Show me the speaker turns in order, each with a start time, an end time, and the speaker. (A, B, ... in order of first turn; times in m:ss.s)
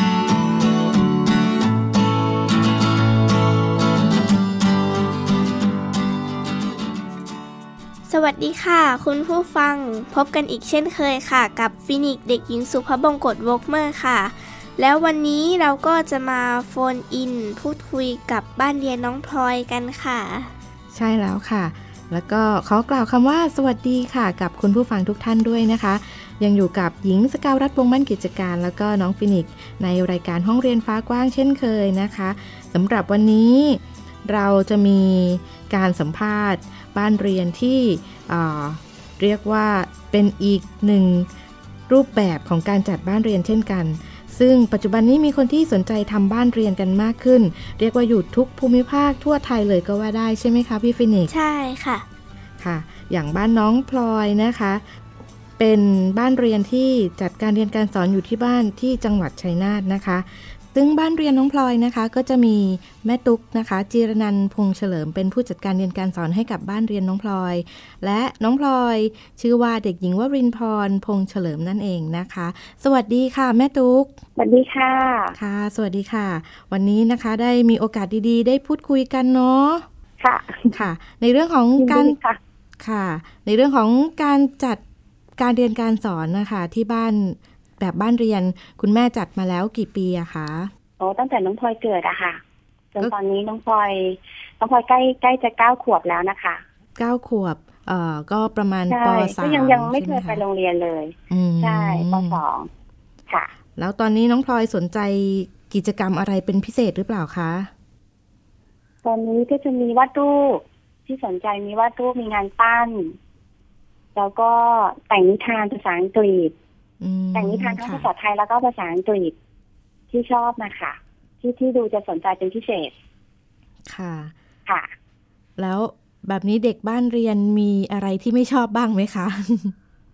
0:08.1-0:20.5 A
0:20.9-0:41.3 B
0:41.9-0:51.3 B
0:51.3-0:52.0 A
0:52.6-0:54.8 B
0:55.6-1:14.1 B
1:14.4-1:15.4 C
1:15.3-1:19.8 B
1:20.2-1:20.8 C
1:20.7-1:22.2 B
1:21.8-1:22.4 C
1:22.8-1:24.8 B
1:25.4-1:30.7 B
1:31.0-1:32.4 C
1:32.9-1:36.6 C
1:37.0-1:40.4 B
1:38.9-1:42.7 C
1:41.3-1:42.4 B
1:43.8-1:47.7 B
1:49.0-1:53.2 C
1:54.1-1:56.5 C
1:57.0-1:58.1 B
1:57.3-1:59.3 C
2:00.1-2:02.9 C
2:03.9-2:04.3 B
2:04.7-2:04.9 C
2:05.6-2:09.7 B